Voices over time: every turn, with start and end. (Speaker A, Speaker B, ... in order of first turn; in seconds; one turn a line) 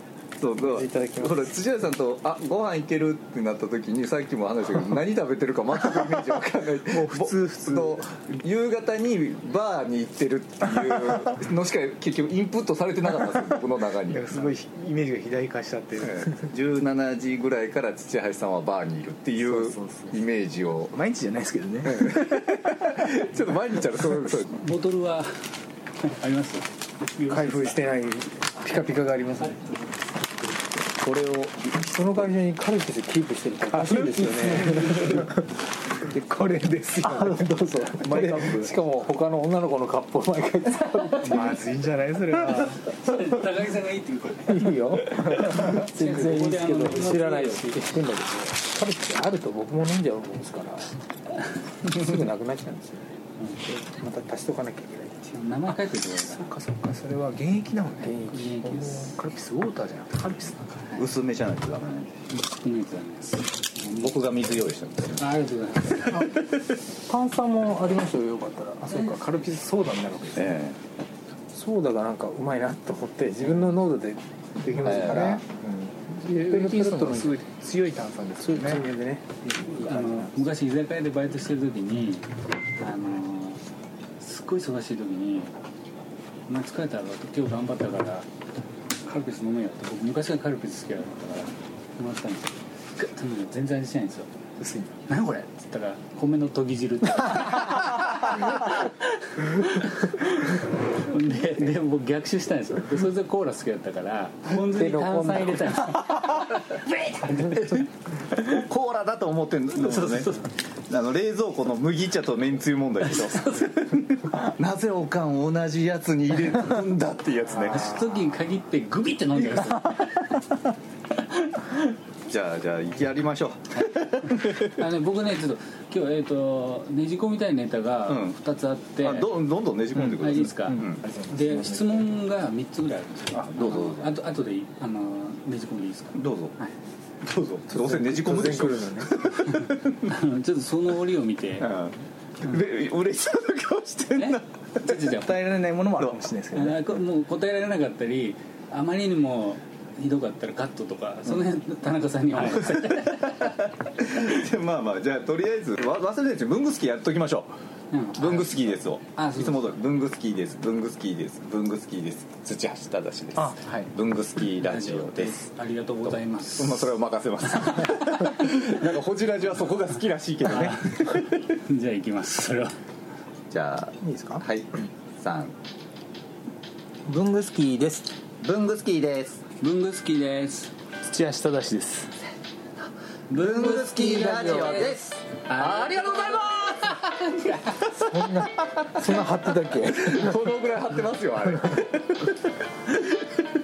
Speaker A: 0.4-14.4
Speaker B: 0.5-1.6
Speaker C: 6.8-8.1
Speaker C: 14.1-16.5
Speaker A: 16.1-21.0
Speaker C: 19.4-20.2
Speaker C: 20.9-22.3
Speaker A: 21.9-24.6
Speaker D: 24.5-25.4
Speaker D: 26.0-27.9
Speaker B: 27.2-29.6
Speaker D: 29.4-30.0
Speaker A: 31.0-32.2
Speaker B: 31.9-35.3
Speaker C: 33.9-35.2
Speaker C: 36.0-38.7
Speaker B: 37.0-41.6
Speaker C: 41.2-42.8
Speaker D: 42.7-47.9
Speaker B: 44.5-50.9
Speaker B: 51.9-53.1
Speaker D: 53.4-53.6
Speaker B: 53.6-55.3
Speaker D: 55.3-56.5
Speaker C: 56.3-60.9
Speaker D: 58.0-59.2
Speaker B: 58.0-58.5
Speaker A: 60.9-62.2
Speaker D: 62.3-64.2
Speaker A: 63.9-65.3
Speaker D: 65.1-66.4
Speaker B: 67.0-69.0
Speaker C: 68.8-70.6
Speaker D: 69.0-69.3
Speaker A: 70.4-70.8
Speaker B: 71.5-75.4
Speaker C: 74.7-78.9
Speaker A: 74.8-75.3
Speaker B: 76.1-77.4
Speaker B: 78.4-79.3
Speaker D: 79.6-83.6
Speaker C: 79.6-80.1
Speaker D: 84.2-85.5
Speaker D: 86.5-88.3
Speaker D: 89.0-94.3
Speaker C: 94.6-95.0
Speaker D: 95.1-107.9
Speaker B: 104.8-105.6
Speaker A: 108.3-118.0
Speaker D: 109.8-110.3
Speaker D: 113.2-113.7
Speaker D: 117.6-120.3
Speaker A: 122.3-124.7
Speaker D: 123.7-129.3
Speaker A: 128.1-128.4
Speaker A: 129.0-131.0
Speaker C: 129.9-132.2
Speaker D: 129.9-136.7
Speaker A: 133.4-134.2
Speaker A: 136.2-136.5
Speaker A: 137.2-140.1
Speaker B: 137.7-139.1
Speaker D: 139.4-141.7
Speaker A: 141.6-145.0
Speaker D: 144.2-145.4
Speaker C: 145.0-147.0
Speaker D: 146.5-153.6
Speaker A: 152.7-157.6
Speaker D: 157.9-159.8
Speaker A: 158.2-165.4
Speaker C: 163.4-163.9
Speaker D: 164.4-167.0
Speaker A: 166.5-171.3
Speaker D: 167.7-168.0
Speaker D: 170.4-172.8
Speaker A: 173.5-175.6
Speaker B: 174.0-174.4
Speaker B: 177.1-178.2
Speaker A: 178.4-179.4
Speaker D: 179.6-180.7
Speaker C: 181.0-182.1
Speaker D: 183.3-187.8
Speaker A: 183.3-193.2
Speaker B: 188.0-190.6